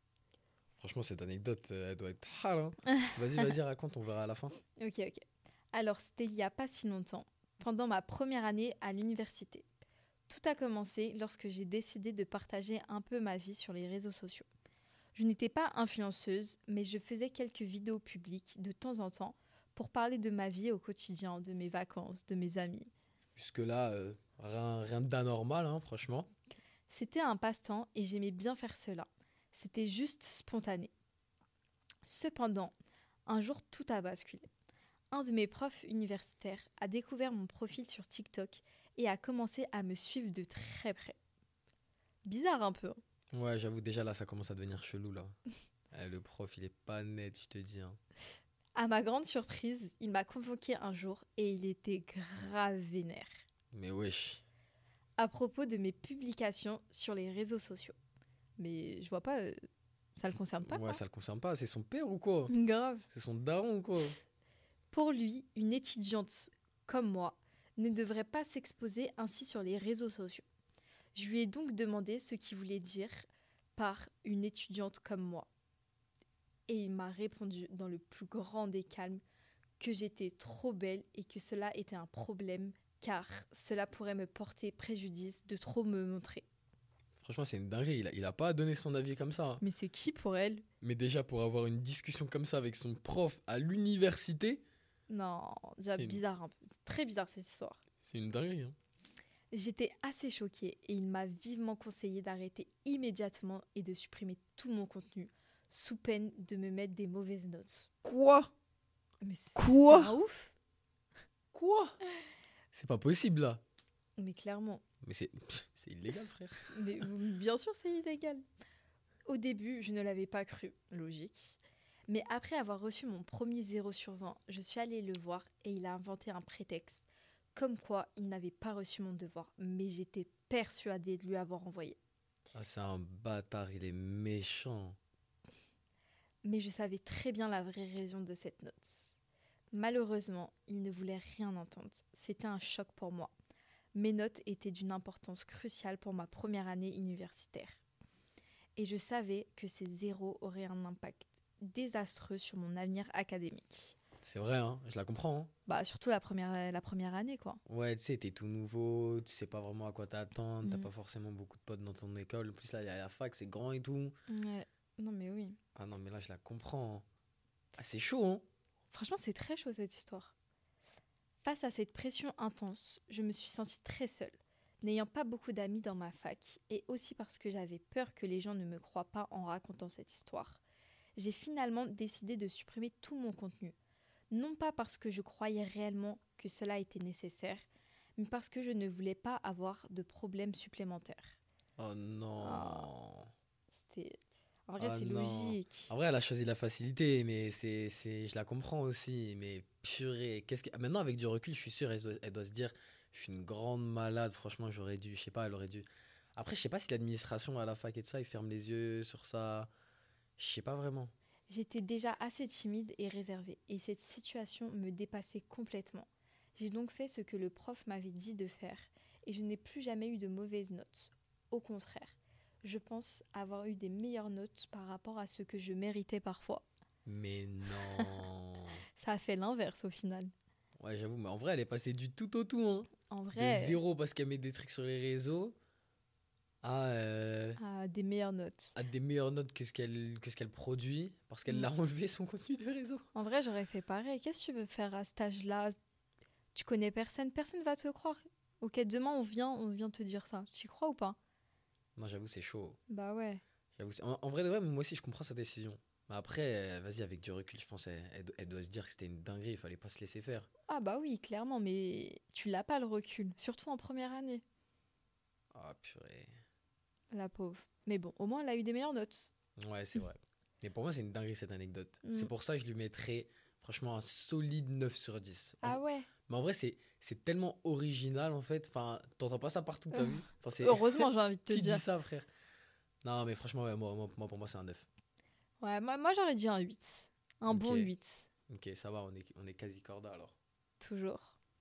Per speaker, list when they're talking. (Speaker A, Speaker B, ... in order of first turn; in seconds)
Speaker A: 0.8-4.6, 23.4-26.3, 43.3-45.4, 45.9-48.0, 53.7-54.4, 60.6-62.5, 63.1-64.2, 87.2-89.6, 90.8-94.6, 95.9-96.2, 98.0-98.8, 108.0-108.5, 109.6-110.1, 111.5-112.0, 112.7-113.6, 115.0-117.1, 132.5-135.0, 154.2-155.5, 157.7-164.2, 165.8-167.1, 167.8-168.4, 191.8-193.3, 194.8-209.7, 210.4-211.1, 227.1-228.8, 230.8-235.6, 236.6-237.6, 238.8-243.1, 252.0-252.8, 253.8-260.5, 265.5-266.3, 269.6-282.3, 283.0-284.9, 287.5-287.9, 288.5-290.4
Speaker B: 4.8-9.7, 10.3-14.5, 15.2-22.9, 26.9-30.9, 32.1-32.7, 33.3-34.5, 35.1-41.2, 42.3-43.0, 48.8-53.4, 55.2-58.0, 58.6-59.5, 60.2-61.0, 62.5-63.1, 64.9-70.5, 71.2-75.5, 76.7-79.2, 79.8-86.5, 89.6-90.7, 95.1-97.8, 99.5-107.9, 109.2-110.5, 114.2-114.8, 116.7-118.4, 119.3-132.0, 136.4-139.2, 139.7-143.3, 143.9-147.8, 148.8-153.9, 155.7-157.6, 160.6-160.9, 164.3-165.6, 168.9-170.3, 171.4-180.6, 181.2-183.8, 184.3-187.7, 188.2-191.4, 192.4-192.9, 193.7-195.9, 211.5-226.7, 227.8-228.1, 229.0-230.3, 233.1-233.8, 237.6-238.8, 243.2-245.8, 246.5-251.2, 252.9-253.4, 260.7-264.4, 267.1-269.3, 272.0-272.3, 275.6-276.1, 279.9-281.8, 285.6-288.3, 290.8-291.4